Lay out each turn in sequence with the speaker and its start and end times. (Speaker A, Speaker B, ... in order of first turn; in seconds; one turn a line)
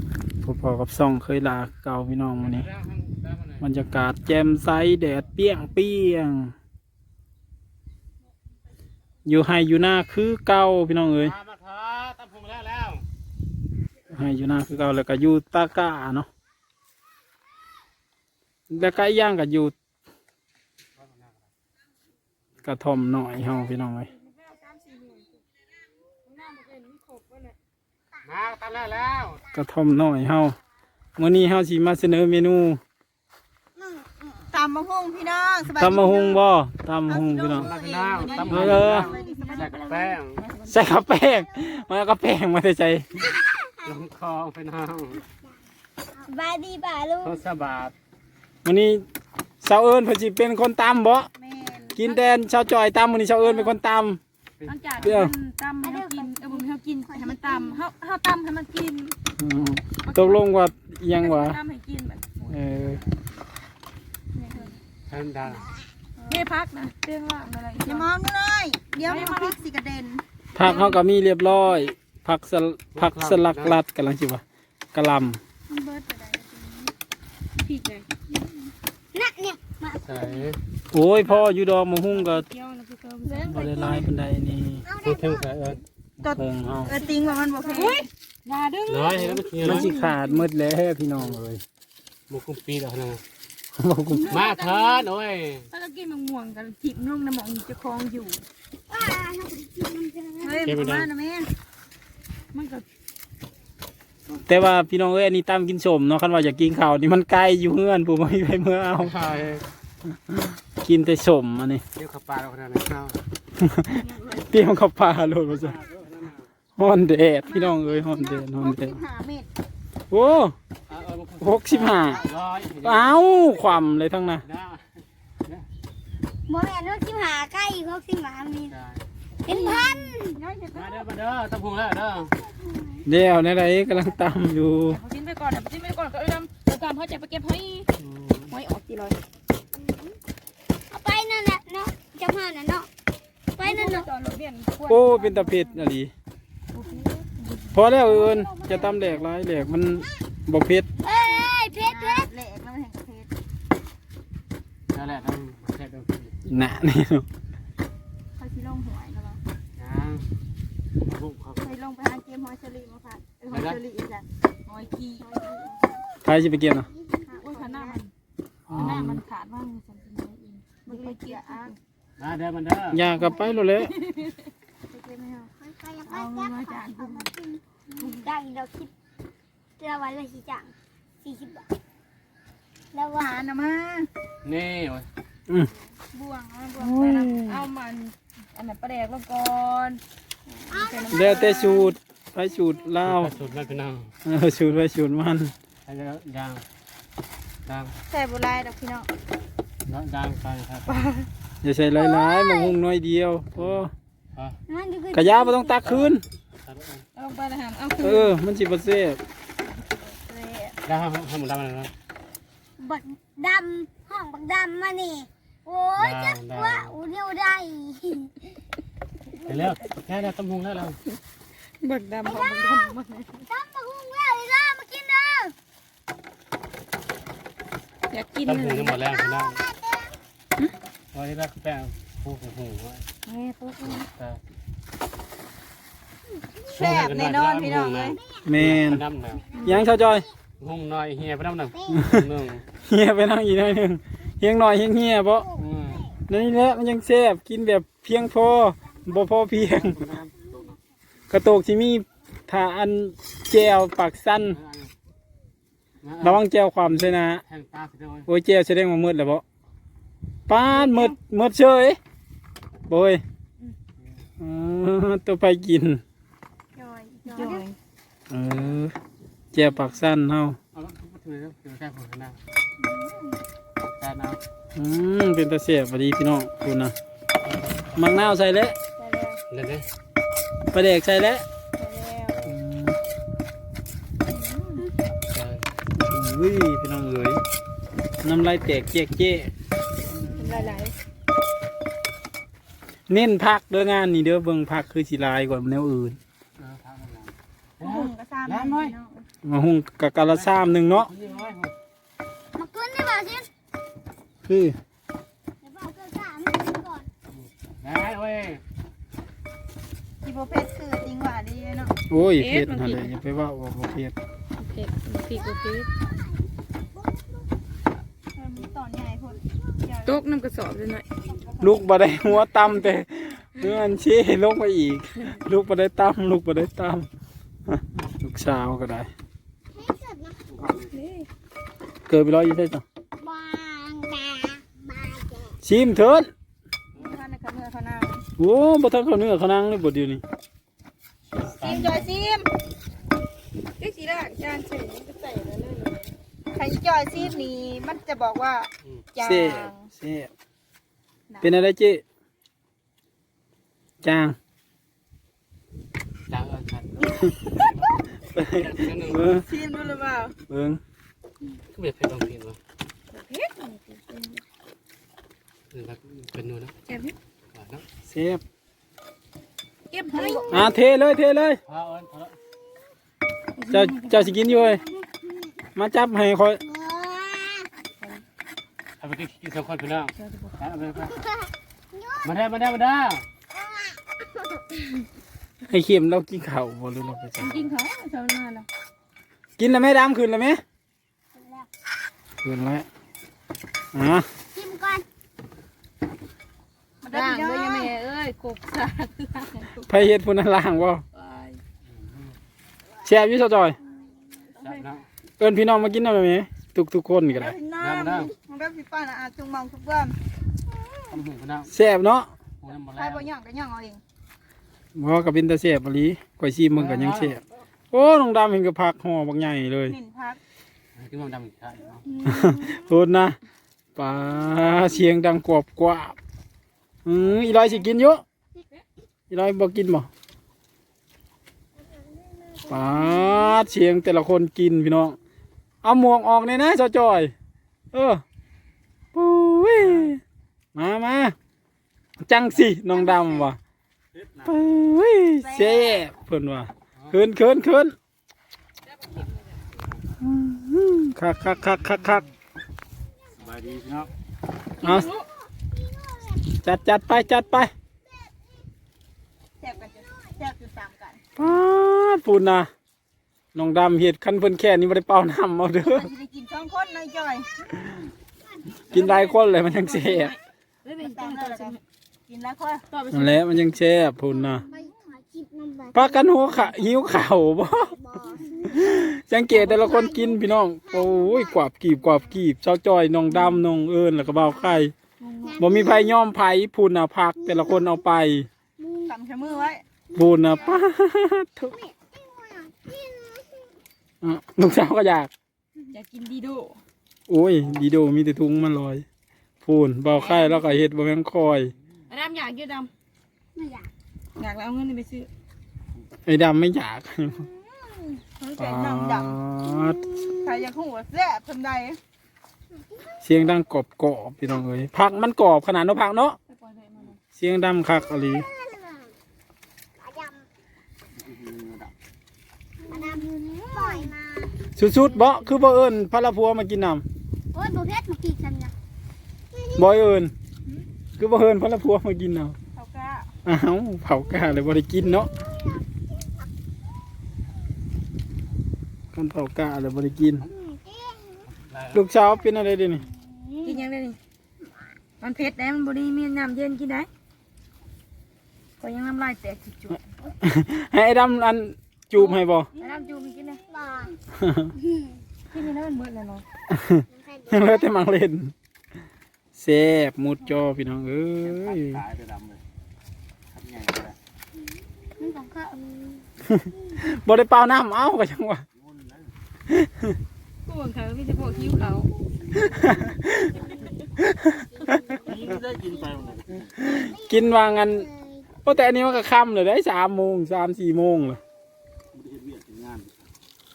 Speaker A: 0.4-2.7
Speaker B: 2.4-3.6
Speaker A: 3.6-6.5
Speaker A: 9.2-11.4
Speaker B: 11.2-13.0
Speaker A: 14.1-16.3
Speaker A: 18.7-19.7
Speaker B: 21.0-21.4
Speaker A: 22.6-24.1
Speaker C: 24.1-25.4
Speaker C: 26.2-27.6
Speaker B: 28.2-29.4
Speaker A: 29.5-30.6
Speaker A: 31.2-32.8
Speaker D: 34.5-36.4
Speaker A: 35.7-37.7
Speaker D: 37.1-39.7
Speaker B: 37.5-40.4
Speaker C: 38.2-40.9
Speaker A: 38.5-39.1
Speaker A: 40.7-43.3
Speaker E: 43.4-43.7
Speaker B: 43.8-45.2
Speaker E: 46.1-47.4
Speaker B: 47.2-47.9
Speaker A: 48.6-49.0
Speaker A: 49.6-51.3
Speaker D: 51.4-52.2
Speaker A: 52.0-54.2
Speaker C: 53.4-53.8
Speaker B: 54.6-55.2
Speaker C: 54.7-59.2
Speaker A: 55.0-55.3
Speaker E: 55.8-57.5
Speaker D: 57.2-57.8
Speaker A: 59.4-61.6
Speaker C: 60.0-63.0
Speaker A: 62.5-63.0
Speaker C: 64.4-64.7
Speaker B: 65.1-65.7
Speaker D: 66.2-66.5
Speaker C: 66.3-68.1
Speaker D: 67.8-70.2
Speaker C: 69.0-69.6
Speaker A: 70.5-74.4
Speaker C: 70.6-71.0
Speaker B: 73.0-73.8
Speaker A: 74.9-75.4
Speaker D: 75.7-76.9
Speaker C: 77.6-78.1
Speaker E: 79.1-80.4
Speaker B: 80.0-80.6
Speaker A: 80.9-82.5
Speaker C: 81.2-81.5
Speaker C: 82.1-84.0
Speaker E: 83.2-84.1
Speaker A: 83.5-84.8
Speaker E: 84.8-85.5
Speaker B: 85.0-85.8
Speaker D: 86.2-88.1
Speaker A: 86.3-87.0
Speaker C: 86.9-90.5
Speaker B: 88.9-89.9
Speaker A: 89.6-91.6
Speaker B: 92.3-93.2
Speaker A: 93.8-94.3
Speaker C: 94.1-95.1
Speaker B: 94.3-95.7
Speaker C: 95.7-98.4
Speaker E: 98.9-100.8
Speaker D: 100.4-101.5
Speaker B: 100.6-101.1
Speaker C: 102.5-102.8
Speaker A: 104.3-109.1
Speaker B: 109.0-109.7
Speaker A: 110.3-111.8
Speaker B: 112.0-113.2
Speaker A: 113.6-115.8
Speaker B: 115.5-116.5
Speaker A: 116.8-119.0
Speaker D: 117.5-119.5
Speaker A: 120.1-120.5
Speaker B: 120.9-123.2
Speaker A: 121.4-122.2
Speaker A: 122.8-124.4
Speaker B: 124.4-124.9
Speaker E: 126.5-128.7
Speaker B: 128.7-129.1
Speaker C: 129.5-130.2
Speaker E: 129.5-130.4
Speaker D: 130.4-130.8
Speaker B: 130.7-132.3
Speaker E: 132.5-133.0
Speaker A: 133.1-135.0
Speaker C: 134.9-137.9
Speaker B: 138.0-138.5
Speaker C: 138.5-139.2
Speaker E: 139.8-140.2
Speaker E: 140.9-142.9
Speaker E: 143.6-144.1
Speaker C: 143.6-145.9
Speaker A: 144.9-146.1
Speaker C: 146.7-147.9
Speaker A: 147.7-150.9
Speaker E: 148.1-149.0
Speaker E: 151.0-152.3
Speaker D: 151.8-153.3
Speaker B: 154.9-156.4
Speaker A: 156.5-157.2
Speaker D: 158.4-159.4
Speaker B: 159.8-160.2
Speaker B: 161.0-161.7
Speaker D: 161.6-166.0
Speaker B: 163.5-163.8
Speaker C: 164.7-165.3
Speaker A: 166.2-166.9
Speaker D: 167.3-168.0
Speaker C: 167.3-168.1
Speaker A: 168.7-169.2
Speaker B: 168.7-169.1
Speaker C: 168.7-171.8
Speaker D: 170.8-171.7
Speaker B: 172.2-173.1
Speaker A: 172.9-174.0
Speaker C: 174.1-174.5
Speaker D: 174.9-175.5
Speaker E: 175.6-178.9
Speaker C: 176.1-177.3
Speaker C: 178.0-178.2
Speaker E: 179.8-181.7
Speaker D: 182.9-184.1
Speaker B: 184.4-185.1
Speaker D: 185.9-187.6
Speaker C: 186.8-190.0
Speaker C: 190.7-191.9
Speaker E: 190.7-191.7
Speaker A: 191.1-193.3
Speaker B: 193.0-194.1
Speaker A: 194.2-195.5
Speaker B: 195.9-196.6
Speaker B: 197.7-197.9
Speaker D: 198.1-199.1
Speaker B: 199.9-201.1
Speaker A: 201.6-203.9
Speaker E: 202.0-202.8
Speaker E: 204.7-205.8
Speaker A: 205.1-206.2
Speaker B: 205.8-207.1
Speaker C: 207.2-208.3
Speaker A: 208.0-209.2
Speaker D: 209.8-210.8
Speaker B: 210.9-211.9
Speaker E: 212.8-218.3
Speaker B: 216.0-216.9
Speaker B: 219.5-221.0
Speaker C: 221.8-223.5
Speaker E: 222.2-222.8
Speaker E: 223.5-225.5
Speaker C: 228.1-229.0
Speaker B: 228.4-229.6
Speaker E: 229.4-230.2
Speaker B: 231.1-233.1
Speaker C: 233.3-234.1
Speaker B: 233.8-234.4
Speaker B: 236.7-239.6
Speaker D: 236.8-238.2
Speaker E: 238.2-238.4
Speaker A: 238.4-239.0
Speaker E: 239.5-240.2
Speaker C: 239.6-239.9
Speaker A: 239.6-240.3
Speaker B: 240.6-242.7
Speaker A: 241.9-242.2
Speaker A: 242.8-245.5
Speaker E: 245.5-246.0
Speaker B: 245.6-246.1
Speaker A: 246.3-250.0
Speaker B: 249.8-250.6
Speaker A: 251.3-254.6
Speaker B: 254.5-254.9
Speaker B: 256.0-258.3
Speaker A: 256.2-257.4
Speaker A: 258.3-259.4
Speaker A: 260.5-262.0
Speaker C: 260.7-261.2
Speaker A: 262.9-263.2
Speaker A: 264.4-266.0
Speaker D: 266.8-267.7
Speaker C: 267.2-267.7
Speaker A: 268.3-268.9
Speaker A: 269.5-270.6
Speaker B: 270.7-272.4
Speaker D: 272.8-273.4
Speaker B: 273.8-274.4
Speaker A: 274.8-276.9
Speaker B: 277.4-278.3
Speaker A: 278.0-278.8
Speaker D: 279.0-279.3
Speaker C: 279.0-279.4
Speaker B: 279.5-279.9
Speaker A: 280.7-281.4
Speaker C: 281.8-282.4
Speaker A: 282.5-283.0
Speaker C: 284.3-284.9
Speaker B: 285.3-285.7
Speaker A: 286.0-287.4
Speaker A: 288.2-289.5
Speaker A: 290.4-290.8
Speaker C: 290.4-290.9
Speaker A: 293.1-296.2
Speaker B: 296.6-299.0
Speaker D: 297.8-299.3
Speaker A: 299.4-301.1
Speaker B: 300.3-301.7
Speaker E: 302.6-303.5
Speaker A: 304.4-304.8
Speaker E: 305.6-307.1
Speaker B: 307.4-308.6
Speaker D: 310.2-311.9
Speaker A: 312.1-314.1
Speaker C: 312.2-313.1
Speaker C: 314.6-315.9
Speaker D: 318.4-320.2
Speaker C: 320.1-321.1
Speaker D: 321.3-321.8
Speaker A: 321.6-327.1
Speaker A: 327.7-329.1
Speaker E: 329.7-330.4
Speaker B: 330.5-330.9
Speaker C: 330.9-331.3
Speaker A: 332.1-332.8
Speaker E: 333.2-335.6
Speaker A: 335.6-336.3
Speaker D: 337.0-338.2
Speaker A: 338.4-340.2
Speaker D: 341.5-342.5
Speaker B: 341.6-342.0
Speaker C: 343.8-346.1
Speaker D: 346.5-349.9
Speaker A: 349.2-350.3
Speaker A: 351.4-352.0
Speaker A: 354.0-354.4
Speaker B: 356.3-358.0
Speaker A: 357.2-357.5
Speaker A: 358.3-359.5
Speaker B: 358.6-359.2
Speaker D: 359.3-360.4
Speaker A: 360.5-360.8
Speaker B: 361.7-362.6
Speaker C: 363.1-364.4
Speaker B: 365.7-366.7
Speaker C: 366.9-367.1
Speaker B: 367.5-367.8
Speaker A: 368.1-368.4
Speaker C: 369.9-370.7
Speaker D: 370.1-370.7
Speaker A: 370.5-371.6
Speaker B: 371.7-372.4
Speaker C: 373.6-374.7
Speaker A: 373.7-374.8
Speaker A: 375.8-376.6
Speaker E: 376.6-377.7
Speaker B: 379.0-381.3
Speaker C: 380.2-380.6
Speaker E: 381.1-382.3
Speaker B: 382.2-383.3
Speaker A: 385.7-387.7
Speaker C: 387.4-388.7
Speaker A: 389.6-390.6
Speaker E: 391.4-391.7
Speaker A: 392.4-392.9
Speaker A: 393.9-394.3
Speaker E: 394.5-395.1
Speaker D: 397.0-397.9
Speaker C: 397.1-399.9
Speaker A: 399.9-401.0
Speaker C: 401.1-401.6
Speaker B: 401.9-402.3
Speaker A: 403.0-403.8
Speaker C: 404.4-404.9
Speaker B: 404.6-405.1
Speaker A: 405.4-407.6
Speaker D: 407.3-410.2
Speaker B: 407.8-408.3
Speaker B: 411.1-411.7
Speaker A: 411.7-412.3
Speaker B: 412.6-413.3
Speaker D: 412.9-414.0
Speaker A: 414.9-420.0
Speaker B: 416.7-417.4
Speaker D: 419.9-420.4
Speaker B: 421.0-422.1
Speaker C: 422.2-422.8
Speaker A: 422.2-423.4
Speaker A: 424.0-426.2
Speaker A: 427.1-428.2
Speaker A: 429.3-430.1
Speaker E: 432.2-433.4
Speaker A: 432.7-435.2
Speaker A: 435.8-437.3
Speaker A: 437.9-438.2
Speaker A: 439.1-440.2
Speaker B: 439.8-440.1
Speaker A: 440.8-441.4
Speaker A: 442.2-443.6
Speaker A: 444.4-447.9
Speaker D: 445.4-446.0
Speaker A: 450.2-452.3
Speaker A: 454.8-455.1
Speaker C: 454.8-455.3
Speaker E: 455.6-456.4
Speaker A: 456.6-457.7
Speaker D: 459.6-461.2
Speaker A: 461.4-462.7
Speaker A: 463.5-466.1
Speaker D: 465.8-467.5
Speaker A: 468.9-470.4
Speaker C: 468.9-471.8
Speaker D: 471.0-472.8
Speaker C: 472.9-473.5
Speaker A: 473.1-474.7
Speaker D: 474.6-474.9
Speaker E: 474.7-476.3
Speaker A: 475.9-478.0
Speaker E: 478.0-479.0
Speaker A: 478.7-484.9
Speaker E: 479.5-481.6
Speaker C: 483.3-483.6
Speaker E: 484.4-484.9
Speaker C: 485.2-485.6
Speaker E: 485.4-486.1
Speaker A: 485.6-488.5
Speaker E: 487.4-488.0
Speaker E: 488.8-490.9
Speaker D: 489.1-489.8
Speaker A: 490.1-491.8
Speaker E: 491.7-493.7
Speaker A: 494.2-495.3
Speaker C: 495.9-496.8
Speaker A: 497.3-499.1
Speaker A: 499.6-501.7
Speaker C: 500.1-500.8
Speaker C: 502.1-502.9
Speaker E: 503.6-503.9
Speaker C: 504.4-505.3
Speaker A: 506.2-507.5
Speaker D: 507.5-509.4
Speaker A: 508.6-510.0
Speaker E: 509.7-510.6
Speaker D: 510.4-512.0
Speaker A: 513.2-516.4
Speaker C: 516.5-517.2
Speaker A: 517.3-518.5
Speaker E: 518.3-519.1
Speaker E: 520.0-520.5
Speaker D: 522.9-524.1
Speaker E: 522.9-524.6
Speaker A: 524.8-527.0
Speaker C: 525.0-525.6
Speaker E: 527.5-528.7
Speaker A: 529.8-530.3
Speaker A: 531.2-532.5
Speaker D: 532.7-533.3
Speaker A: 533.5-535.3
Speaker E: 535.2-536.2
Speaker A: 539.1-540.5
Speaker E: 540.6-541.4
Speaker B: 541.5-542.0
Speaker A: 541.9-543.0
Speaker E: 543.2-543.8
Speaker C: 543.6-544.2
Speaker C: 545.2-547.1
Speaker C: 548.8-550.1
Speaker A: 550.4-552.7
Speaker C: 552.2-553.6
Speaker E: 553.7-554.1
Speaker A: 554.4-554.7
Speaker C: 555.5-556.4
Speaker A: 556.7-558.5
Speaker E: 557.1-557.9
Speaker A: 559.5-562.0
Speaker B: 561.7-562.2
Speaker B: 563.6-564.0
Speaker C: 565.2-565.8
Speaker D: 565.2-565.7
Speaker A: 566.5-568.6
Speaker A: 569.7-570.1
Speaker C: 570.7-572.1
Speaker A: 572.6-573.6
Speaker E: 573.5-574.0
Speaker A: 574.2-574.8
Speaker E: 574.8-578.5
Speaker A: 576.8-578.1
Speaker A: 578.6-581.4